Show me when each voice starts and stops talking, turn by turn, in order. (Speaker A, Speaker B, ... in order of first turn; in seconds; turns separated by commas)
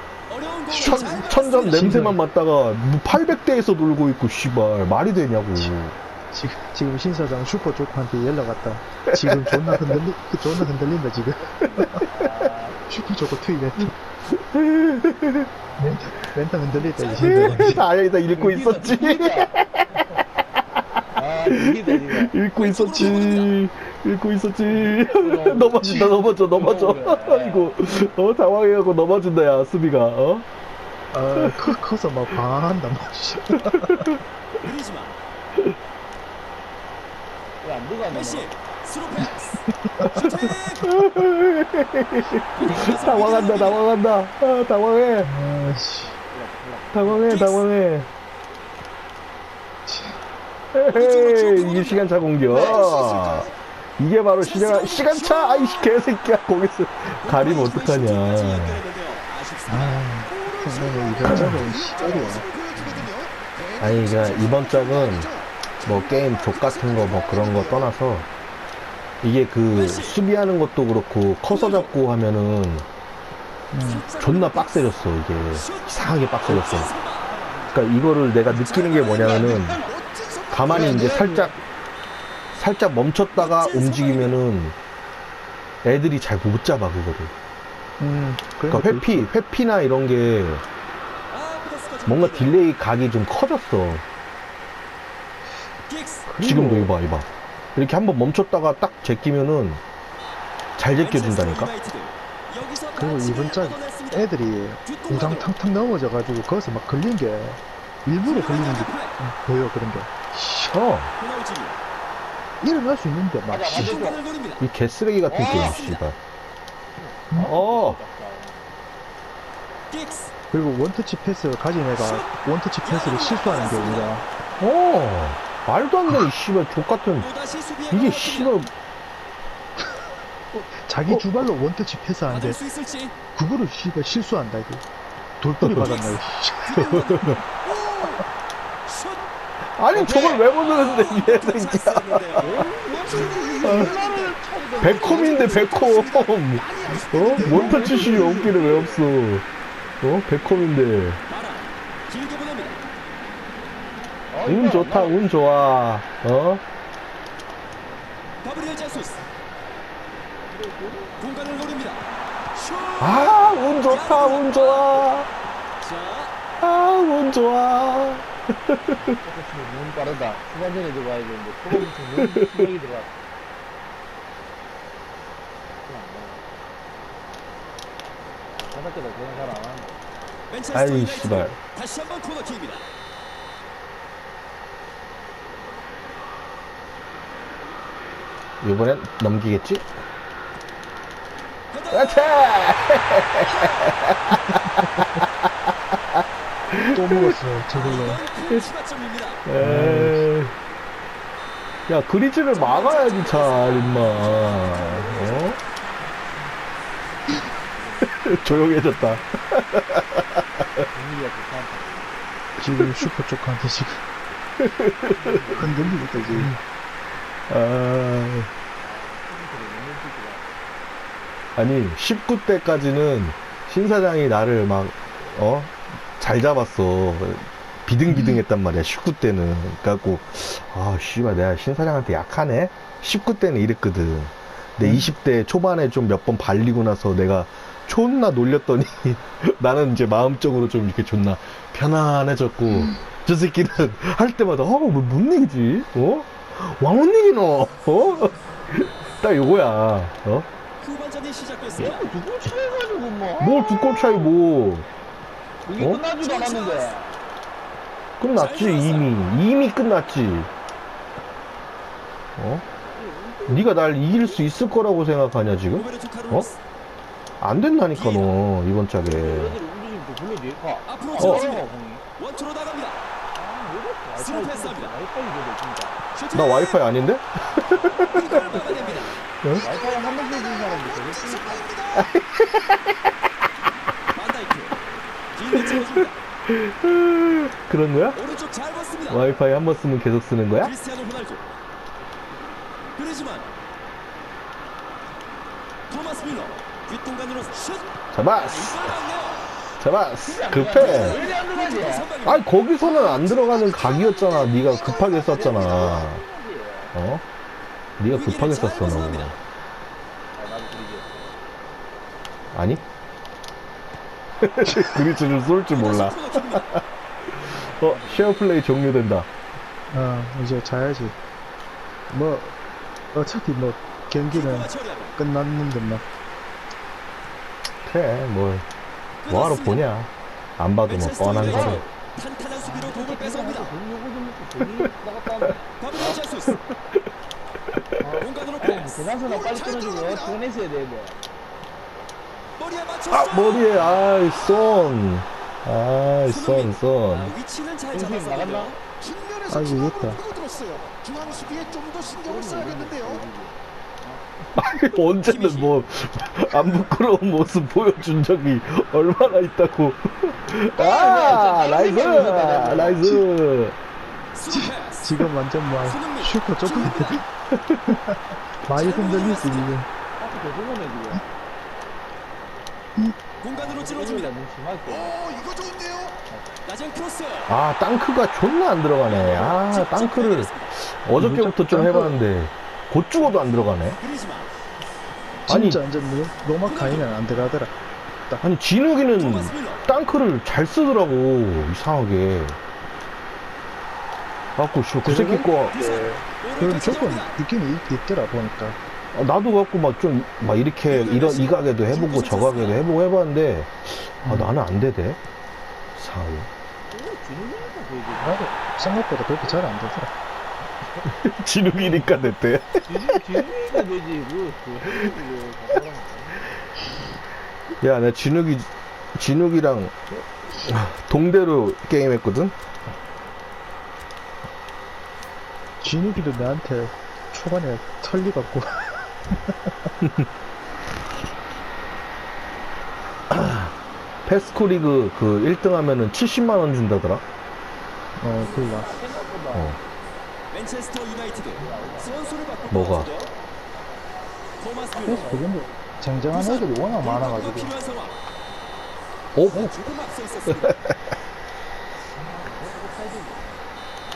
Speaker A: 0.3-2.0, Speaker B: 0.7-6.0, Speaker C: 0.9-2.2, Speaker C: 6.3-13.9, Speaker D: 11.6-12.8, Speaker B: 14.3-15.5, Speaker C: 15.8-17.9, Speaker B: 17.1-20.2, Speaker D: 18.2-19.5, Speaker D: 21.2-22.3, Speaker B: 21.4-30.4, Speaker A: 22.6-23.5, Speaker D: 24.9-27.8, Speaker C: 25.8-26.1, Speaker C: 31.1-34.2, Speaker A: 34.6-35.1, Speaker D: 37.6-38.5, Speaker A: 38.3-39.6, Speaker C: 39.9-40.4, Speaker B: 40.0-45.3, Speaker A: 40.1-40.8, Speaker A: 42.6-43.8, Speaker D: 42.8-43.2, Speaker C: 45.2-46.1, Speaker D: 46.2-47.4, Speaker B: 46.9-48.1, Speaker C: 49.9-50.2, Speaker B: 50.7-58.9, Speaker A: 50.9-52.0, Speaker D: 52.5-52.9, Speaker E: 53.0-53.5, Speaker A: 54.5-55.8, Speaker A: 57.3-60.0, Speaker C: 59.7-63.1, Speaker E: 60.3-67.6, Speaker B: 61.3-61.6, Speaker B: 63.8-65.3, Speaker B: 65.8-68.3, Speaker B: 69.2-72.9, Speaker C: 73.7-74.1, Speaker A: 73.8-74.7, Speaker B: 74.1-77.0, Speaker A: 76.8-77.1, Speaker D: 77.2-77.8, Speaker B: 77.7-79.8, Speaker A: 78.7-79.1, Speaker D: 79.0-80.0, Speaker E: 80.1-80.7, Speaker B: 80.5-81.6, Speaker C: 80.7-81.5, Speaker D: 80.7-81.3, Speaker B: 82.5-84.8, Speaker A: 83.4-84.3, Speaker B: 85.8-87.3, Speaker C: 88.0-89.3, Speaker B: 88.7-90.6, Speaker A: 91.3-92.6, Speaker B: 92.1-94.0, Speaker A: 95.9-96.2, Speaker C: 96.3-96.9, Speaker B: 96.4-99.8, Speaker B: 100.8-101.7, Speaker A: 101.3-104.2, Speaker C: 103.0-110.8, Speaker A: 104.9-105.4, Speaker A: 108.3-109.0, Speaker B: 110.7-111.1, Speaker A: 111.2-111.7, Speaker C: 112.6-114.2, Speaker D: 113.5-114.3, Speaker A: 114.0-114.5, Speaker B: 114.6-116.2, Speaker D: 115.3-115.8, Speaker A: 115.6-116.0, Speaker D: 117.0-118.7, Speaker B: 117.4-118.0, Speaker A: 119.9-120.3, Speaker C: 120.5-124.2, Speaker A: 122.9-124.1, Speaker B: 124.6-127.3, Speaker A: 127.2-128.2, Speaker B: 127.9-128.7, Speaker C: 130.5-132.6, Speaker A: 132.3-133.1, Speaker C: 133.3-134.8, Speaker C: 135.4-137.0, Speaker B: 135.6-136.1, Speaker A: 136.7-137.4, Speaker B: 136.8-137.4, Speaker A: 138.9-139.2, Speaker B: 139.8-142.6, Speaker D: 139.9-140.4, Speaker A: 140.7-142.6, Speaker D: 142.4-145.8, Speaker E: 143.3-144.3, Speaker B: 143.6-143.9, Speaker B: 144.8-149.5, Speaker A: 144.9-146.0, Speaker E: 145.9-147.3, Speaker D: 147.2-149.1, Speaker C: 147.4-148.3, Speaker B: 150.0-151.2, Speaker A: 151.3-152.7, Speaker D: 154.3-155.3, Speaker B: 154.5-156.6, Speaker A: 158.4-159.2, Speaker D: 160.5-161.2, Speaker A: 161.2-162.0, Speaker A: 162.6-163.1, Speaker B: 163.0-165.3, Speaker A: 164.1-164.6, Speaker A: 165.8-166.3, Speaker B: 166.6-169.0, Speaker D: 169.1-173.1, Speaker B: 172.3-172.7, Speaker D: 175.8-176.4, Speaker D: 178.6-180.0, Speaker A: 180.5-182.8, Speaker B: 180.7-181.6, Speaker B: 188.6-189.9, Speaker B: 191.9-195.0, Speaker B: 196.7-197.3, Speaker C: 196.9-198.2, Speaker A: 197.8-199.4, Speaker B: 199.4-200.5, Speaker C: 199.6-200.3, Speaker B: 201.9-205.6, Speaker A: 202.7-205.1, Speaker B: 208.1-210.9, Speaker D: 210.9-212.0, Speaker C: 212.6-214.0, Speaker B: 214.6-215.3, Speaker D: 215.2-216.2, Speaker C: 215.5-216.5, Speaker B: 217.5-218.5, Speaker D: 218.8-220.4, Speaker B: 221.6-250.5, Speaker A: 250.8-251.8, Speaker D: 251.8-254.3, Speaker B: 253.4-254.9, Speaker D: 255.7-257.2, Speaker B: 255.8-256.0, Speaker B: 258.2-260.5, Speaker A: 258.4-259.1, Speaker B: 262.4-262.6, Speaker D: 262.8-264.4, Speaker B: 263.5-266.5, Speaker A: 265.8-266.5, Speaker B: 267.4-269.6, Speaker D: 269.0-272.1, Speaker A: 270.9-271.7, Speaker B: 271.2-271.5, Speaker A: 272.2-273.0, Speaker D: 273.4-276.0, Speaker A: 274.2-274.9, Speaker A: 276.2-276.7, Speaker B: 276.3-278.5, Speaker D: 277.9-281.8, Speaker A: 278.2-279.1, Speaker E: 279.8-282.1, Speaker B: 281.9-282.9, Speaker A: 284.1-284.8, Speaker A: 285.4-286.1, Speaker B: 285.6-285.9, Speaker B: 286.5-288.2, Speaker A: 288.2-289.1, Speaker B: 289.1-290.8, Speaker A: 290.7-291.4, Speaker A: 293.0-293.4, Speaker A: 295.9-297.8, Speaker B: 298.1-298.9, Speaker A: 298.6-299.3, Speaker B: 299.8-301.2, Speaker D: 300.2-302.1, Speaker A: 300.8-302.4, Speaker B: 302.2-306.2, Speaker E: 304.9-305.3, Speaker D: 305.3-307.0, Speaker B: 306.9-307.2, Speaker B: 308.0-309.4, Speaker A: 308.3-309.3, Speaker D: 310.4-311.2, Speaker B: 312.5-312.8, Speaker B: 314.4-319.3, Speaker A: 315.8-316.6, Speaker D: 317.8-318.3, Speaker C: 319.9-321.1, Speaker C: 322.1-322.6, Speaker C: 323.1-326.0, Speaker A: 324.3-325.1, Speaker B: 327.9-328.6, Speaker B: 329.3-331.8, Speaker A: 329.3-329.8, Speaker A: 330.9-333.7, Speaker D: 331.4-331.9, Speaker D: 332.6-336.2, Speaker A: 335.8-336.5, Speaker D: 338.0-341.2, Speaker A: 338.2-339.0, Speaker E: 339.5-340.0, Speaker A: 342.6-343.6, Speaker B: 343.1-347.4, Speaker A: 347.3-348.7, Speaker D: 347.9-348.8, Speaker E: 349.0-353.2, Speaker C: 349.5-350.2, Speaker D: 351.1-354.2, Speaker B: 354.6-363.8, Speaker D: 360.8-363.1, Speaker C: 363.0-363.2, Speaker A: 364.4-364.9, Speaker C: 364.5-367.3, Speaker A: 365.9-367.1, Speaker C: 367.9-368.1, Speaker C: 368.7-369.9, Speaker A: 368.8-369.7, Speaker D: 370.2-371.2, Speaker D: 373.4-376.5, Speaker A: 373.5-374.2, Speaker E: 375.5-376.1, Speaker A: 376.7-377.4, Speaker B: 377.5-384.0, Speaker A: 379.2-380.6, Speaker C: 381.2-382.2, Speaker A: 384.0-384.5, Speaker C: 385.5-387.8, Speaker B: 385.5-385.8, Speaker B: 388.4-392.6, Speaker B: 394.6-395.8, Speaker C: 395.0-398.8, Speaker A: 395.9-397.3, Speaker B: 399.1-405.2, Speaker A: 400.9-402.8, Speaker C: 404.2-404.5, Speaker B: 406.0-406.5, Speaker D: 406.9-408.7, Speaker C: 408.2-410.1, Speaker B: 411.0-412.8, Speaker D: 412.9-416.6, Speaker B: 417.8-420.0, Speaker B: 420.6-422.5, Speaker C: 425.8-429.5, Speaker B: 433.3-433.7, Speaker B: 434.3-437.2, Speaker C: 438.2-438.9, Speaker D: 438.4-439.7, Speaker A: 440.6-441.6, Speaker D: 441.4-443.2, Speaker A: 442.2-443.2, Speaker B: 442.7-443.1, Speaker C: 445.0-447.7, Speaker D: 445.0-445.4, Speaker A: 447.1-448.1, Speaker B: 449.3-449.8, Speaker A: 449.6-450.7, Speaker B: 450.5-450.9, Speaker D: 452.2-453.5